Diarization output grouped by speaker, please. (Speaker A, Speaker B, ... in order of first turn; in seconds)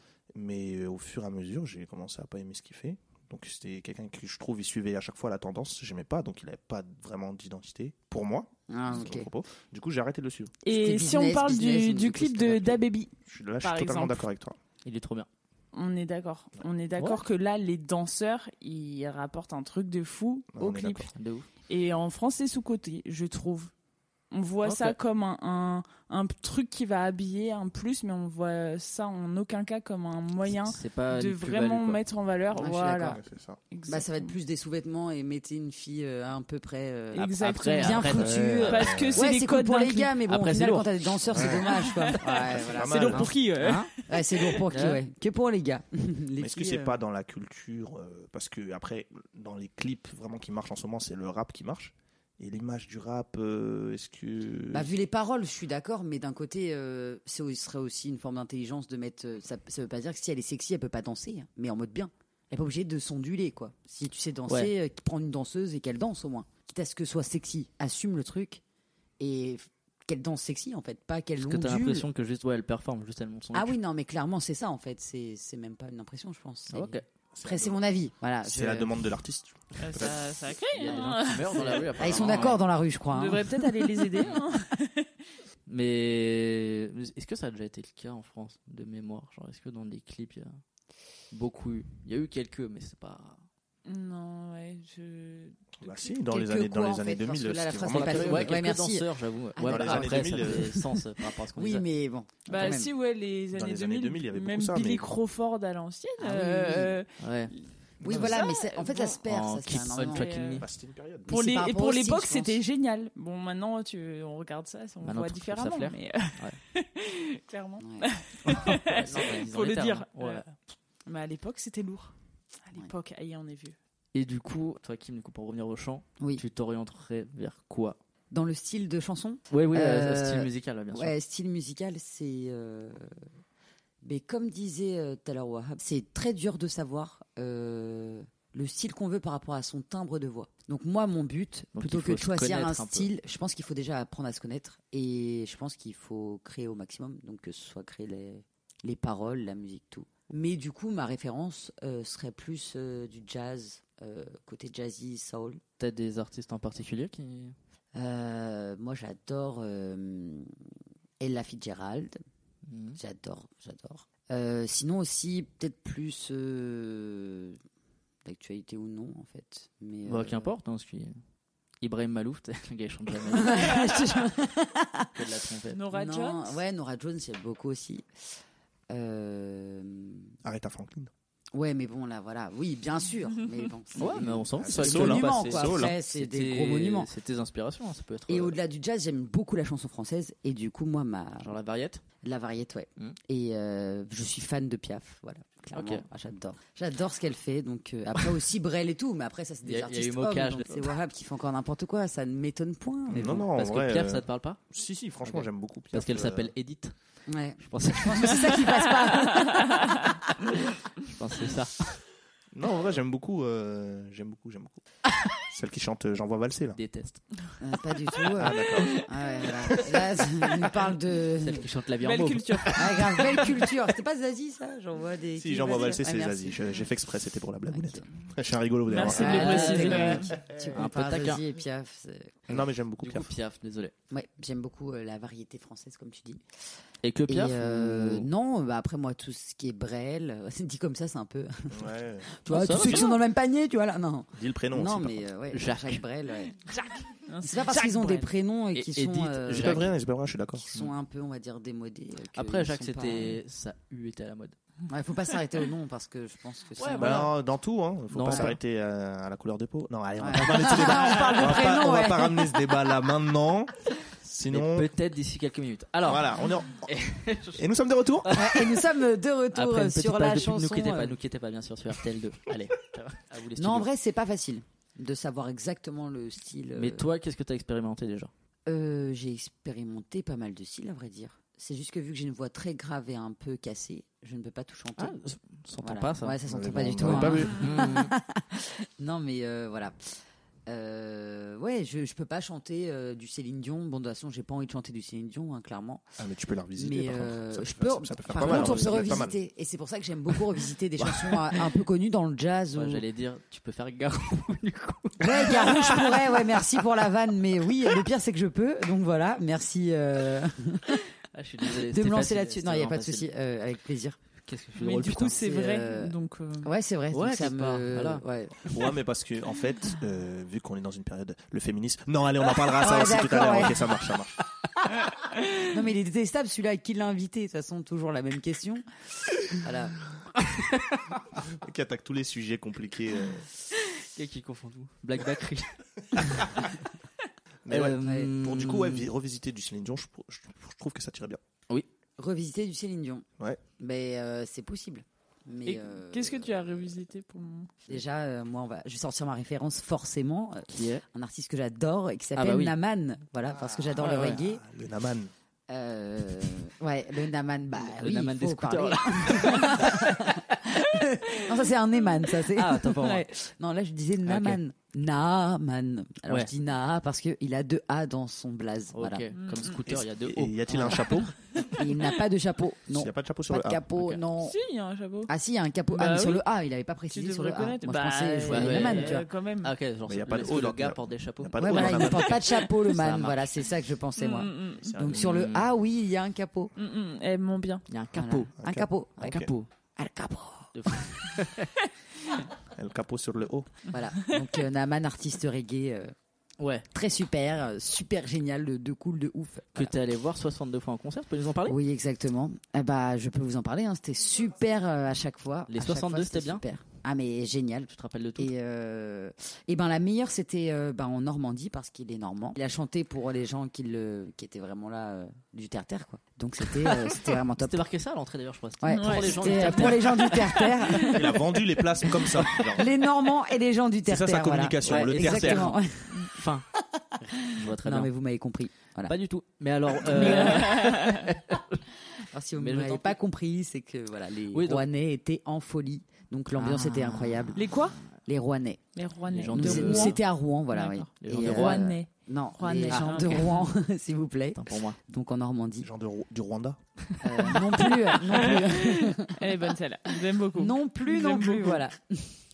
Speaker A: 0.3-10.5, 13.3-14.6, 20.5-21.1, 33.0-33.6, 38.2-39.2, 41.3-41.7, 42.4-43.3, 46.4-54.9, 77.3-77.8, 78.4-80.3, 95.8-98.7, 99.7-100.8, 103.5-105.1, 108.0-108.3, 110.6-111.3, 180.4-181.1, 184.6-186.0, 203.1-206.5, 212.5-214.8, 215.4-216.8, 218.3-219.0, 225.3-229.6, 232.5-233.3, 241.7-243.1, 244.3-245.3, 249.5-250.7, 257.0-264.9, 266.0-266.9, 267.5-268.4, 286.4-287.8, 296.2-299.4, 301.0-301.4, 318.6-324.4, 331.4-333.4, 337.6-341.4, 353.5-355.3, 369.9-371.4, 372.9-374.1, 380.1-382.5, 384.8-385.3, 388.6-389.5, 392.7-393.7, 421.0-422.9, 424.1-425.8, 445.8-446.8
Speaker B: 8.7-9.3, 10.7-12.8, 32.5-33.2, 33.9-43.3, 44.1-47.0, 54.7-68.6, 69.2-72.1, 73.5-79.1, 82.0-84.2, 96.2-102.9, 106.2-107.0, 108.0-110.3, 111.2-112.6, 117.8-118.1, 128.3-133.1, 134.0-155.6, 157.9-160.5, 161.2-162.2, 163.0-167.6, 168.2-170.5, 173.3-175.1, 175.9-178.1, 178.9-180.3, 181.5-187.1, 188.3-191.6, 192.2-203.5, 207.3-210.6, 217.6-221.7, 222.7-226.6, 227.7-228.0, 229.0-232.4, 234.1-236.4, 237.3-246.7, 247.4-249.9, 250.6-253.4, 254.9-257.3, 258.3-258.5, 260.2-262.7, 268.3-271.1, 273.6-277.1, 278.6-285.2, 285.8-290.1, 290.7-296.1, 296.8-303.0, 305.2-311.0, 311.7-314.2, 315.2-318.8, 322.6-324.0, 324.9-330.0, 338.0-338.3, 342.2-343.2, 343.8-346.9, 347.9-354.6, 355.7-369.2, 370.7-371.0, 371.7-374.6, 375.3-379.2, 381.6-386.7, 388.1-391.4, 393.9-396.1, 396.9-399.9, 401.6-417.8, 418.8-421.4, 422.2-426.4, 427.6-429.1, 429.9-430.8, 432.3-438.8, 439.5-445.9, 447.2-449.5, 450.5-452.4
Speaker C: 10.6-14.2, 15.7-21.1, 21.7-23.7, 24.3-33.2, 33.7-34.3, 37.1-40.1, 41.4-44.6, 79.8-82.5, 83.1-85.1, 93.8-96.1, 102.5-109.2, 110.0-110.7, 111.3-120.5, 121.0-122.1, 122.6-123.8, 175.7-176.6, 218.7-219.0, 222.0-223.3, 228.9-230.3, 246.7-248.3, 314.8-316.7, 345.6-347.8, 361.4-361.7, 369.3-369.8, 374.4-375.3, 375.9-376.4, 377.1-379.7, 384.2-384.9, 386.8-387.9, 418.9-421.2, 430.1-431.2, 437.5-438.0, 438.9-443.7, 447.5-451.8
Speaker D: 14.8-15.3, 17.0-17.2, 21.1-21.5, 24.6-25.0, 30.4-32.0, 37.2-38.7, 40.3-40.9, 43.6-43.9, 44.7-45.0, 64.5-64.7, 71.4-73.8, 76.7-77.1, 80.7-82.6, 85.7-90.6, 91.3-93.4, 97.9-101.8, 107.2-107.5, 108.1-108.4, 109.2-110.7, 115.0-116.6, 118.4-120.5, 124.1-128.0, 129.5-131.1, 141.7-143.1, 155.8-157.5, 162.7-163.0, 170.1-171.2, 171.8-173.9, 175.1-175.8, 183.9-188.6, 191.4-192.0, 195.7-196.0, 199.6-200.9, 203.2-204.6, 205.2-206.9, 207.6-208.7, 211.0-211.8, 216.7-217.2, 219.7-220.7, 221.4-223.6, 229.1-231.4, 232.5-233.9, 237.0-238.3, 242.5-243.2, 245.5-246.0, 248.7-249.9, 252.3-254.6, 256.8-257.3, 258.1-258.6, 260.4-260.8, 264.5-267.7, 268.2-268.9, 269.5-273.9, 276.8-278.3, 285.0-286.4, 287.0-288.1, 298.3-299.3, 302.7-306.6, 311.3-313.3, 314.4-315.4, 317.1-318.2, 330.6-331.0, 334.1-336.7, 337.7-339.1, 350.7-351.0, 352.4-352.8, 354.0-354.4, 357.8-360.2, 362.5-363.2, 364.2-364.6, 368.9-371.2, 378.5-383.5, 385.1-385.7, 387.9-388.5, 389.2-389.7, 390.7-391.7, 396.6-396.9, 399.7-401.8, 405.7-406.6, 407.9-408.5, 417.1-420.8, 424.8-428.1, 429.0-431.8, 432.6-433.2, 434.5-434.9, 436.5-437.7, 439.3-440.2, 441.2-442.0, 442.9-443.4, 444.5-445.0, 447.1-447.6